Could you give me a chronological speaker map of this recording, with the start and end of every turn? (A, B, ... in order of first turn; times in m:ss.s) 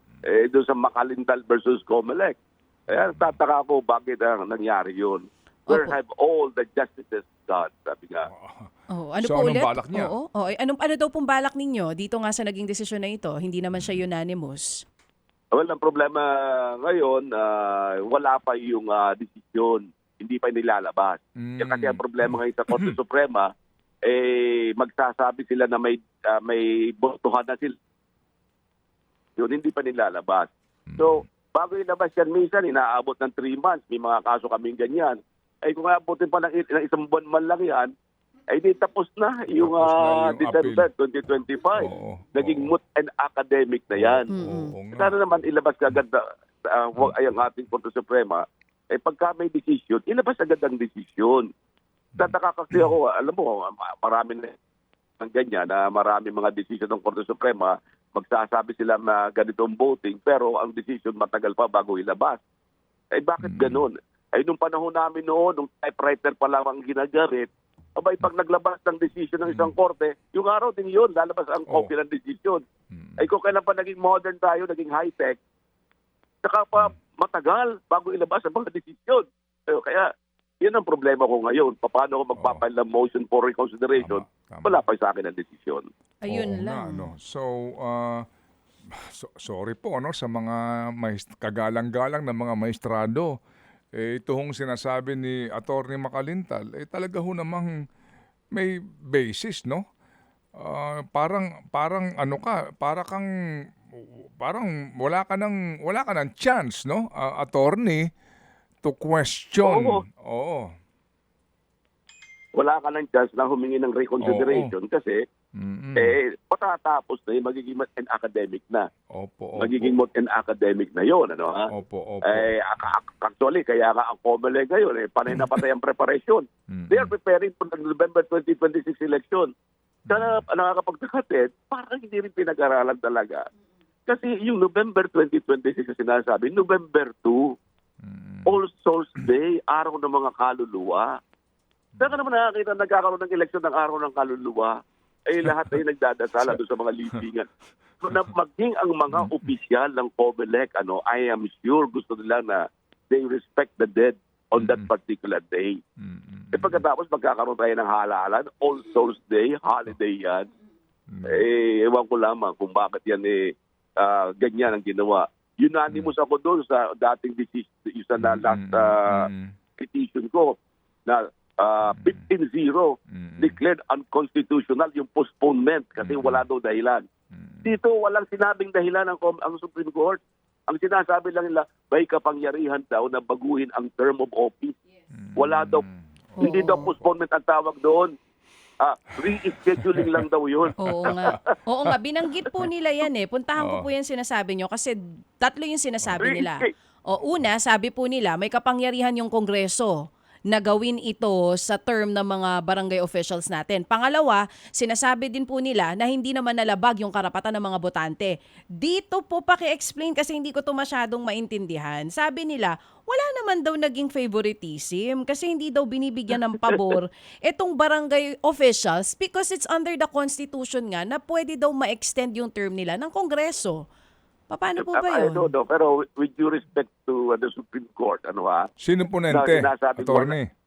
0:00.3-0:02.4 A
0:02.9-0:08.3 A
0:02.9-0:03.4 B
0:05.7-0:06.0 C
0:08.3-0:08.7 B
0:08.9-0:14.8 C
0:09.2-0:10.1 B
0:15.5-0:23.5 A
0:21.4-0:22.9 B
0:24.1-0:27.8 A
0:29.4-0:37.9 A
0:30.9-0:31.2 B
0:38.5-0:44.4 A
0:39.5-0:40.9 B
0:41.8-0:42.7 B
0:43.9-0:45.2 B
0:44.3-0:44.7 C
0:45.0-0:51.5 A
0:52.2-0:52.9 B
0:52.2-0:54.5 A
0:55.2-1:02.4 A
1:03.2-1:12.6 A
1:03.4-1:03.9 B
1:09.5-1:09.7 B
1:12.9-1:13.3 B
1:13.2-1:15.4 A
1:16.4-1:20.1 A
1:20.6-1:25.9 A
1:22.4-1:22.6 B
1:24.0-1:24.8 B
1:26.2-1:27.1 C
1:26.3-1:28.2 B
1:28.9-1:33.3 B
1:34.0-1:37.7 B
1:38.6-1:39.8 B
1:40.6-1:43.3 B
1:43.9-1:48.1 B
1:48.8-1:50.7 B
1:49.6-1:50.0 A
1:52.6-1:55.2 A
1:54.2-1:54.7 B
1:55.6-1:56.2 B
1:56.0-1:58.9 A
1:59.1-2:00.0 B
1:59.6-2:01.7 A
2:01.7-2:02.5 B
2:02.3-2:09.5 A
2:05.3-2:05.6 B
2:06.7-2:07.1 B
2:10.1-2:10.4 B
2:10.1-2:13.4 A
2:14.1-2:17.4 A
2:18.0-2:18.6 B
2:18.5-2:21.1 A
2:22.0-2:24.8 A
2:25.3-2:27.5 A
2:25.5-2:25.8 B
2:28.0-2:35.8 A
2:29.1-2:29.4 B
2:34.6-2:34.9 B
2:36.0-2:36.8 B
2:36.5-2:40.5 A
2:41.1-2:41.4 B
2:41.3-2:57.0 A
2:48.2-2:49.5 B
2:51.9-2:52.2 B
2:53.1-2:53.6 B
2:56.0-2:56.4 B
2:57.3-2:57.8 B
2:57.6-3:04.8 A
3:05.1-3:07.1 B
3:05.4-3:05.8 A
3:06.4-3:06.9 C
3:06.4-3:08.1 A
3:08.8-3:11.4 A
3:10.8-3:20.0 C
3:11.0-3:11.4 B
3:13.6-3:13.9 B
3:16.0-3:16.3 B
3:16.2-3:16.7 A
3:20.5-3:43.9 C
3:44.5-3:45.5 C
3:44.8-3:48.7 A
3:48.8-3:50.5 B
3:49.3-3:50.4 A